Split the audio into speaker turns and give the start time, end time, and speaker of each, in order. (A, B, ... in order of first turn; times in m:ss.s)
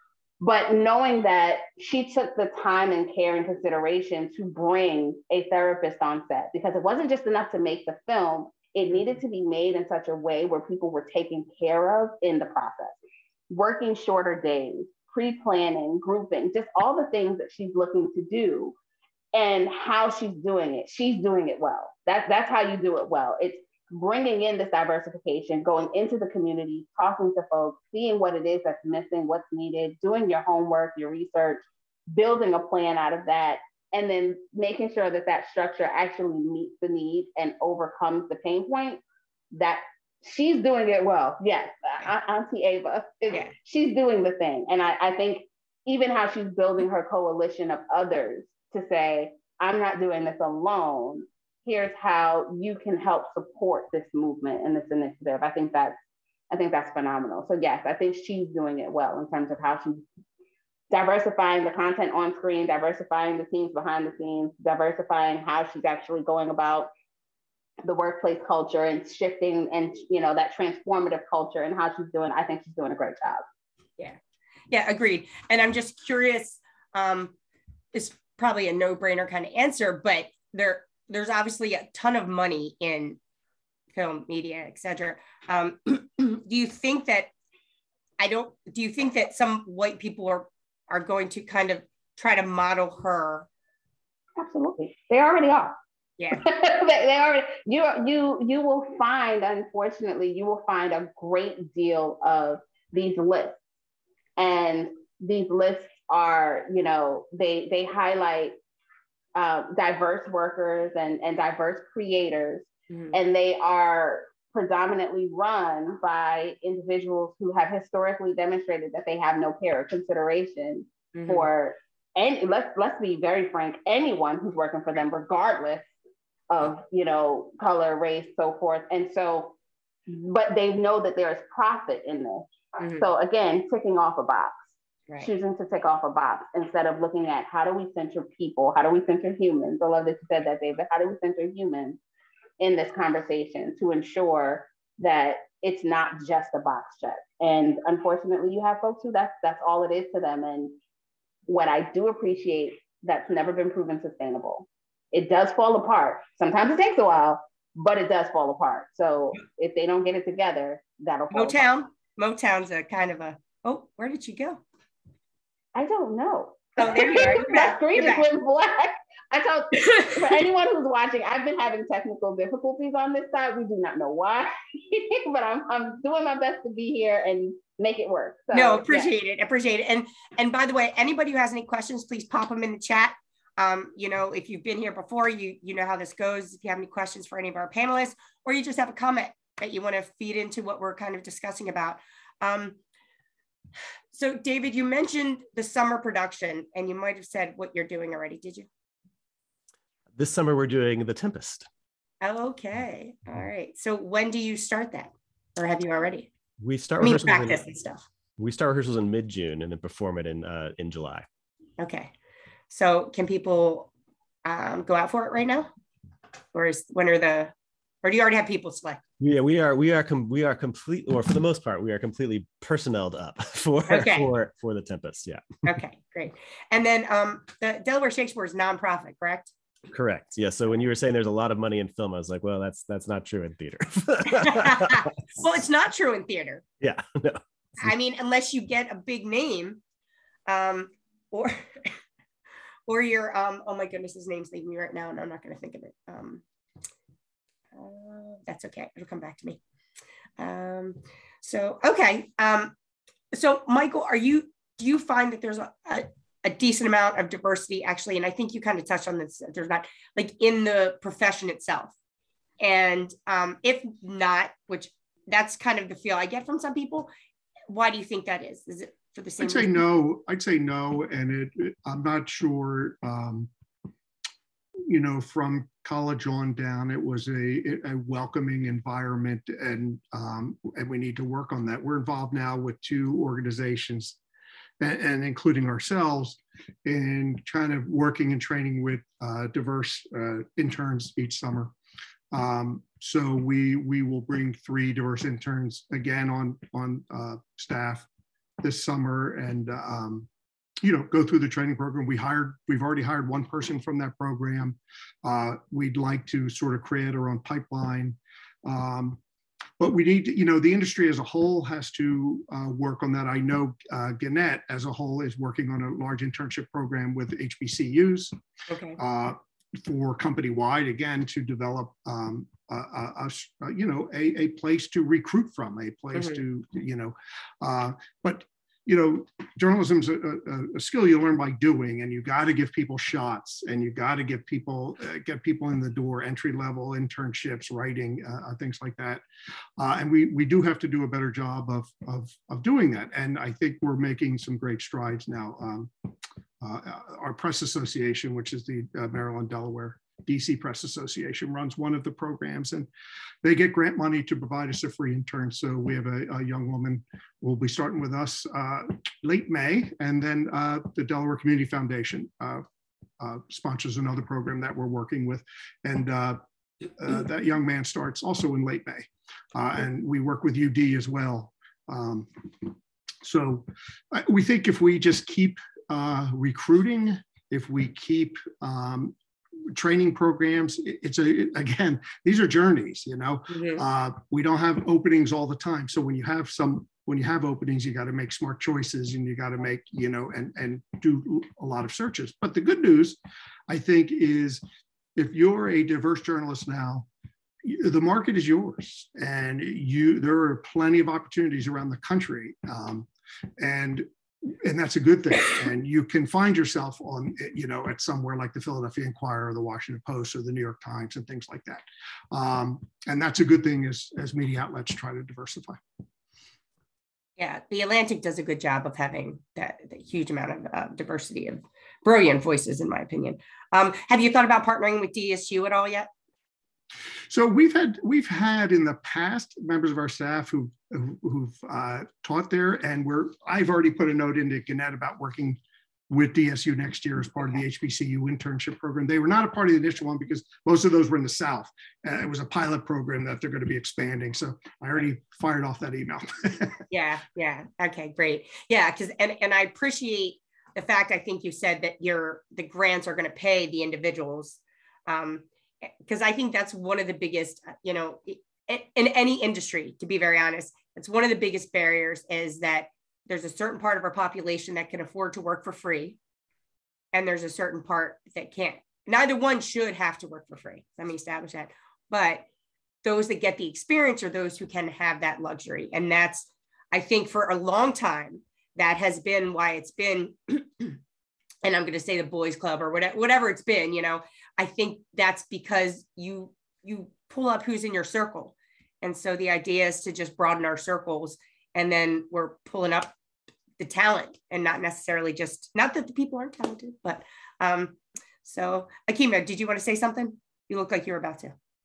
0:00.4-0:13.0 A
0:13.5-0:18.7 A
0:19.3-0:39.0 A
0:39.5-0:56.0 A
0:56.5-1:00.0 A
1:00.9-1:06.9 A
1:07.8-1:13.4 A
1:14.7-1:17.3 B
1:17.9-1:23.2 B
1:23.9-1:27.3 B
1:28.2-1:33.5 B
1:34.4-1:35.7 A
1:36.2-1:36.4 B
1:36.3-1:43.6 A
1:44.4-1:48.6 A
1:49.3-2:05.8 A
1:52.9-1:53.2 B
2:01.1-2:01.4 B
2:06.5-2:09.5 A
2:10.1-2:14.5 A
2:12.8-2:13.0 B
2:15.2-2:22.0 A
2:22.6-2:30.8 A
2:31.4-2:41.8 A
2:41.3-2:44.6 B
2:45.7-2:59.1 A
2:46.8-2:48.2 B
2:58.5-3:12.8 B
3:14.1-3:18.7 B
3:20.2-3:21.7 C
3:22.2-3:26.3 B
3:26.6-3:27.6 C
3:27.0-3:28.0 B
3:28.4-3:31.2 C
3:31.8-3:32.1 B
3:32.7-3:33.9 B
3:34.4-3:35.7 B
3:36.5-3:39.0 B
3:39.2-3:45.4 C
3:43.9-3:44.3 B
3:45.6-3:49.5 B
3:49.9-3:55.1 C
3:54.3-3:56.6 B
3:56.8-3:57.9 C
3:57.8-3:59.8 B
4:00.5-4:02.0 B
4:02.9-4:06.4 B
4:07.7-4:09.6 B
4:10.4-4:12.7 B
4:13.3-4:21.9 B
4:22.6-4:27.1 B
4:27.7-4:29.8 B
4:29.4-4:33.5 D
4:34.9-4:44.2 D
4:44.8-4:51.7 D
4:52.3-4:58.1 D
4:58.6-5:00.3 D
5:00.8-5:09.2 D
5:09.8-5:18.3 D
5:18.7-5:19.0 B
5:19.0-5:39.2 D
5:26.1-5:26.4 B
5:39.8-5:52.9 D
5:53.4-6:02.6 D
6:03.2-6:19.1 D
6:19.7-6:34.6 D
6:23.5-6:23.8 B
6:35.2-6:37.1 D
6:37.6-6:43.1 D
6:43.6-6:55.8 D
6:57.4-7:06.1 B
7:07.3-7:26.8 D
7:26.9-7:46.2 B
7:47.1-7:52.4 B
7:53.0-8:01.0 B
8:01.6-8:13.1 B
8:13.8-8:21.5 B